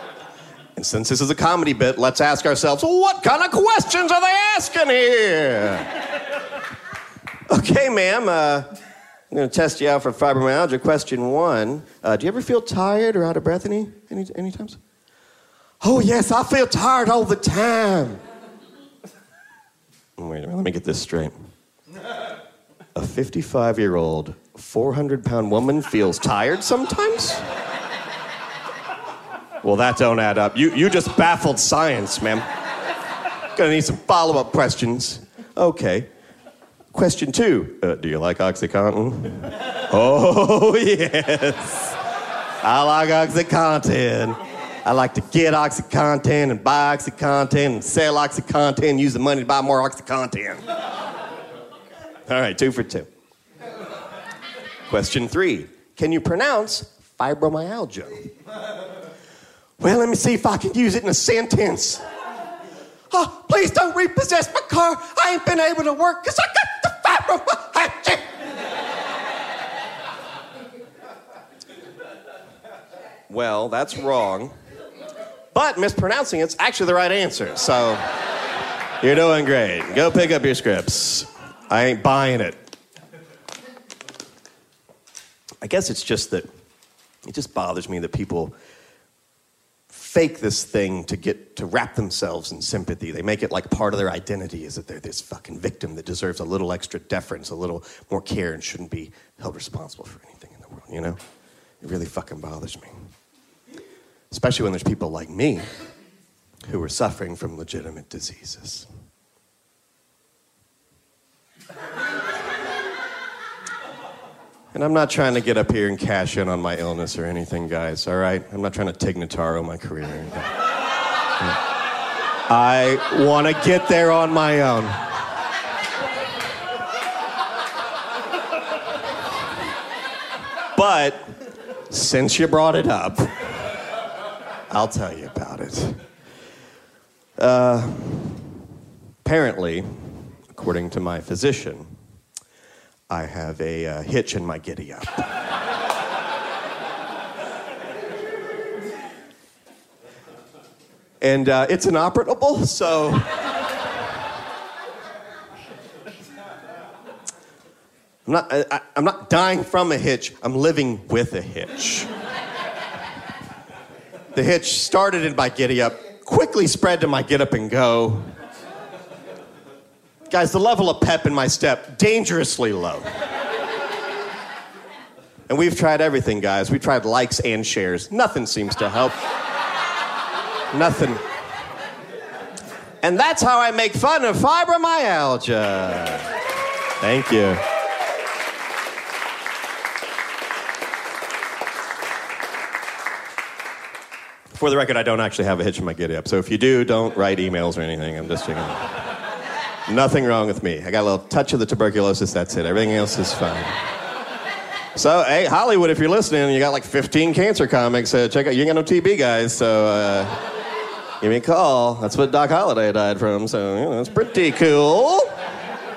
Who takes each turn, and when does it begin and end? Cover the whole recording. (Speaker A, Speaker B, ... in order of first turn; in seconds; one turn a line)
Speaker A: 0.8-6.0
Speaker A: 7.5-8.7
Speaker A: 9.3-14.8
Speaker A: 15.8-18.2
Speaker A: 20.2-21.4
Speaker A: 23.0-27.4
Speaker A: 29.6-32.4
Speaker A: 33.6-36.1
Speaker A: 36.9-42.0
Speaker A: 42.6-50.6
Speaker A: 52.3-53.1
Speaker A: 54.9-58.2
Speaker A: 59.8-62.0
Speaker A: 63.1-68.2
Speaker A: 73.3-74.5
Speaker A: 75.5-78.0
Speaker A: 79.0-82.6
Speaker A: 85.6-86.5
Speaker A: 87.2-88.5
Speaker A: 89.9-101.2
Speaker A: 101.8-103.0
Speaker A: 104.3-105.7
Speaker A: 106.7-108.9
Speaker A: 114.7-120.5
Speaker A: 122.5-125.0
Speaker A: 130.8-131.3
Speaker A: 131.9-133.3
Speaker A: 134.7-136.0
Speaker A: 137.4-138.6
Speaker A: 139.2-139.9
Speaker A: 140.5-141.9
Speaker A: 143.1-145.3
Speaker A: 151.2-153.3
Speaker A: 158.3-162.1
Speaker A: 164.3-168.3
Speaker A: 170.3-173.1
Speaker A: 175.5-179.2
Speaker A: 180.7-181.2
Speaker A: 183.0-186.3
Speaker A: 187.0-187.6
Speaker A: 194.5-199.0
Speaker A: 199.9-203.7
Speaker A: 204.9-210.3
Speaker A: 211.2-215.3